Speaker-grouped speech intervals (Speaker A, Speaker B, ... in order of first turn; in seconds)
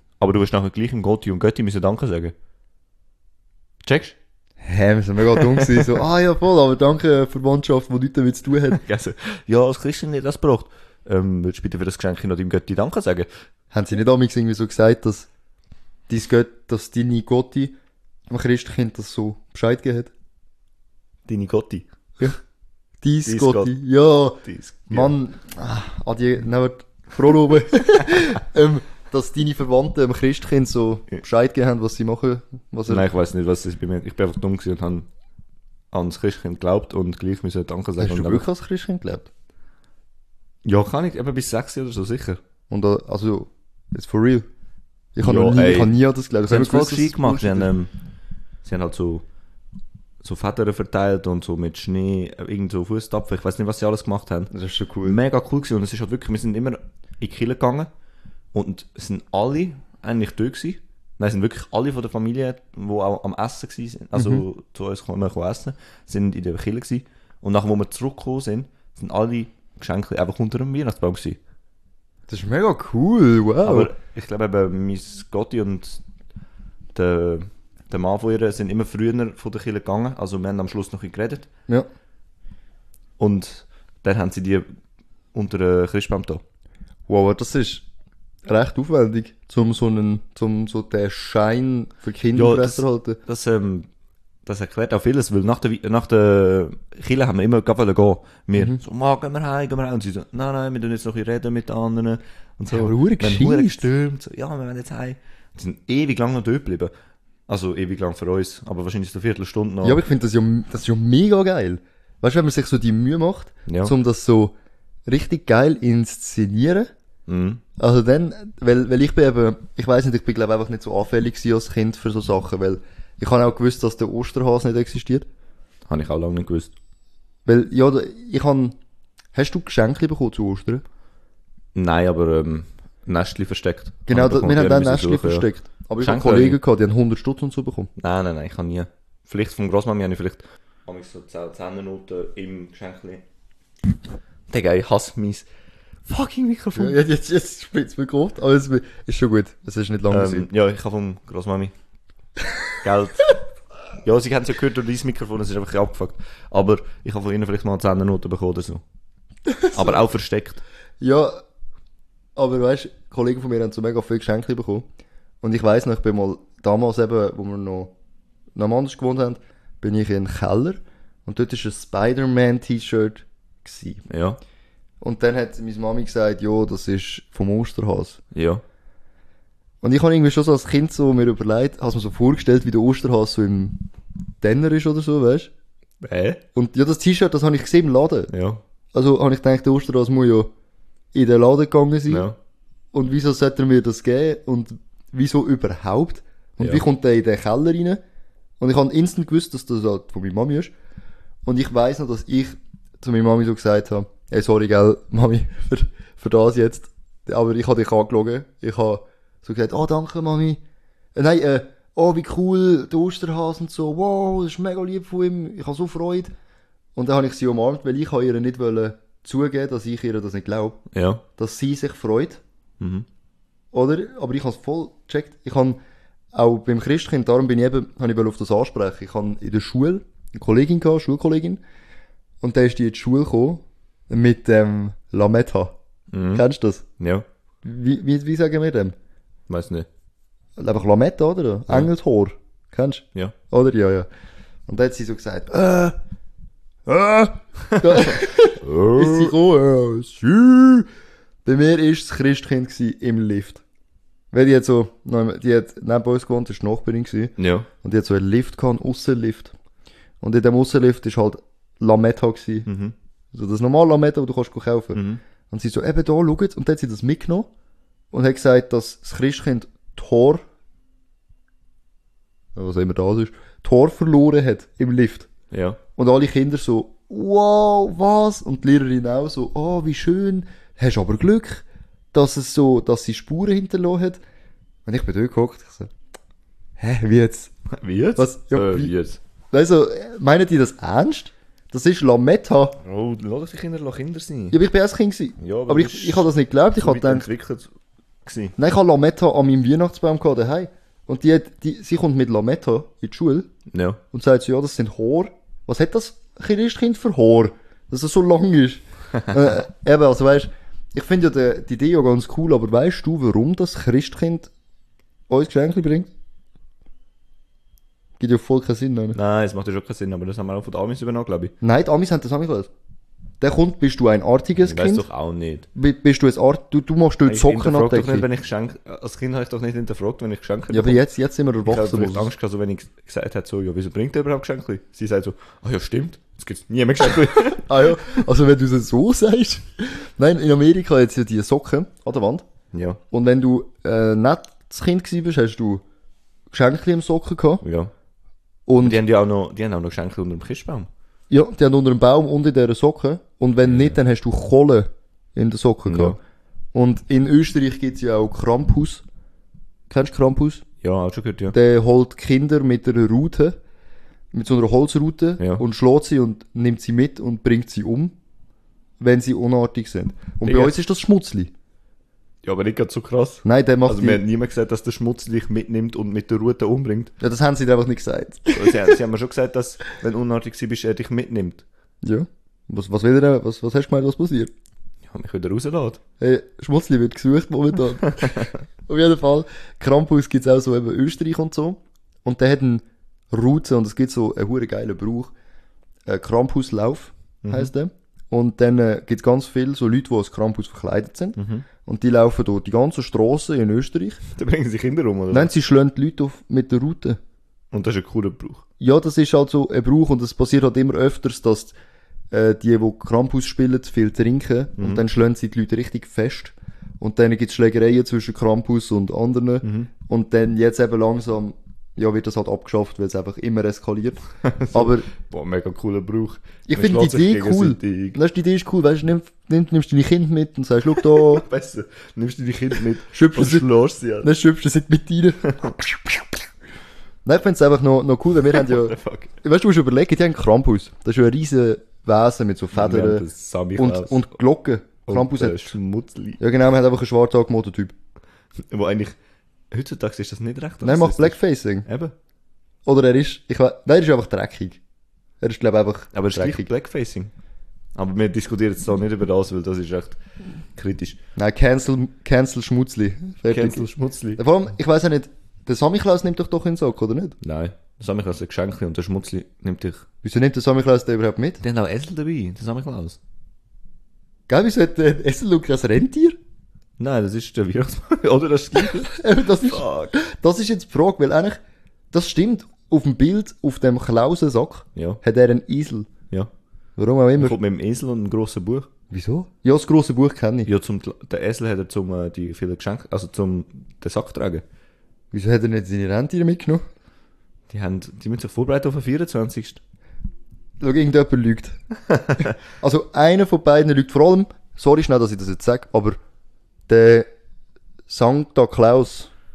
Speaker A: 0.2-2.3, 3.8-4.2, 5.3-6.0, 8.7-13.3, 21.3-21.9, 23.2-23.7, 24.4-25.1, 32.9-35.1, 35.9-38.4, 40.6-42.4, 45.2-47.9, 48.6-49.2, 50.2-54.5, 55.0-57.9, 58.5-71.4, 73.6-76.0, 76.9-81.5, 83.2-84.7, 85.3-86.4, 92.3-93.9, 94.5-106.9, 107.5-110.0, 113.7-113.9, 117.3-117.6, 125.9-126.7, 131.7-135.5, 136.0-136.6, 138.0-143.2, 144.5-145.4, 146.1-147.0, 150.1-151.7, 152.8-153.3, 154.0-158.8, 159.7-160.6, 174.1-174.4, 178.3-178.6, 186.0-186.4, 188.3-188.6, 192.1-192.3, 220.9-221.2, 222.8-223.1, 236.1-236.4, 237.0-237.2, 239.5-239.9, 247.7-249.3, 257.4-257.7, 262.7-262.9, 264.9-265.2, 275.5-275.8, 287.7-289.2, 292.8-294.6, 295.4-297.7, 298.2-298.5, 303.7-304.0, 319.1-321.5, 324.6-325.7, 327.2-331.0, 331.6-338.0, 342.7-343.0, 347.6-347.9, 348.8-350.9, 353.7-354.0, 355.9-356.2, 360.8-361.6, 370.4-370.7, 372.4-377.1, 378.5-381.6, 385.1-386.0, 388.2-388.4, 397.4-397.7, 401.4-401.6, 404.3-405.5, 407.7-408.6, 419.6-419.9, 424.4-428.2, 430.9-434.3, 438.5-439.3, 442.7-444.2, 445.1-446.4, 448.6-449.2, 449.7-452.1, 456.1-457.3, 457.9-460.2, 460.8-461.2, 463.5-464.4, 467.4-470.0, 471.6-473.2, 477.0-480.1, 487.4-488.9, 490.6-494.6, 497.7-499.8, 502.1-502.4
Speaker B: 4.6-8.8, 13.7-15.3, 16.1-17.7, 18.3-20.1, 23.0-33.1, 38.0-39.3, 42.7-44.4, 45.1-47.7, 54.5-55.2, 64.1-64.4, 72.3-73.9, 87.1-87.8, 88.5-93.2, 102.7-103.8, 109.8-114.5, 115.1-116.9, 117.8-125.2, 127.5-128.8, 129.3-130.8, 134.1-137.9, 146.7-150.5, 159.5-160.0, 161.0-161.4, 162.3-164.8, 165.4-167.9, 168.6-174.0, 175.0-178.2, 179.8-183.8, 184.4-185.5, 186.5-188.3, 188.9-190.5, 191.1-192.3, 192.9-198.0, 198.6-200.7, 201.4-210.6, 211.1-216.3, 216.9-220.8, 221.4-222.4, 223.7-225.8, 226.3-231.6, 232.4-235.7, 236.3-236.8, 237.6-238.9, 240.6-244.1, 244.7-245.9, 246.8-250.9, 251.4-253.6, 254.3-259.5, 260.2-262.7, 263.3-267.5, 268.1-270.4, 272.5-275.3, 275.9-284.2, 284.9-285.9, 286.8-287.5, 288.1-288.9, 289.5-292.8, 294.5-297.2, 298.6-303.5, 304.1-314.5, 315.3-316.1, 318.2-319.2, 321.6-322.7, 323.4-325.1, 325.7-328.2, 330.7-332.3, 337.6-342.4, 343.1-345.8, 346.5-347.6, 348.7-349.0, 351.3-356.2, 356.7-359.0, 359.9-360.6, 361.5-363.5, 364.3-368.1, 369.0-371.5, 373.4-374.2, 377.2-378.9, 382.0-384.5, 386.2-395.3, 396.1-404.2, 405.3-407.2, 408.8-411.7, 412.3-425.1, 426.7-431.4, 433.1-433.7, 434.2-436.1, 437.2-445.7, 446.4-447.9, 450.8-451.9, 452.9-454.8, 455.4-456.7, 461.4-467.4, 470.2-471.6, 474.5-476.4, 479.0-481.6, 482.1-486.1, 487.0-487.6, 489.1-490.7, 495.3-496.8, 500.8-501.8, 502.4-506.2, 506.9-507.3, 508.1-509.3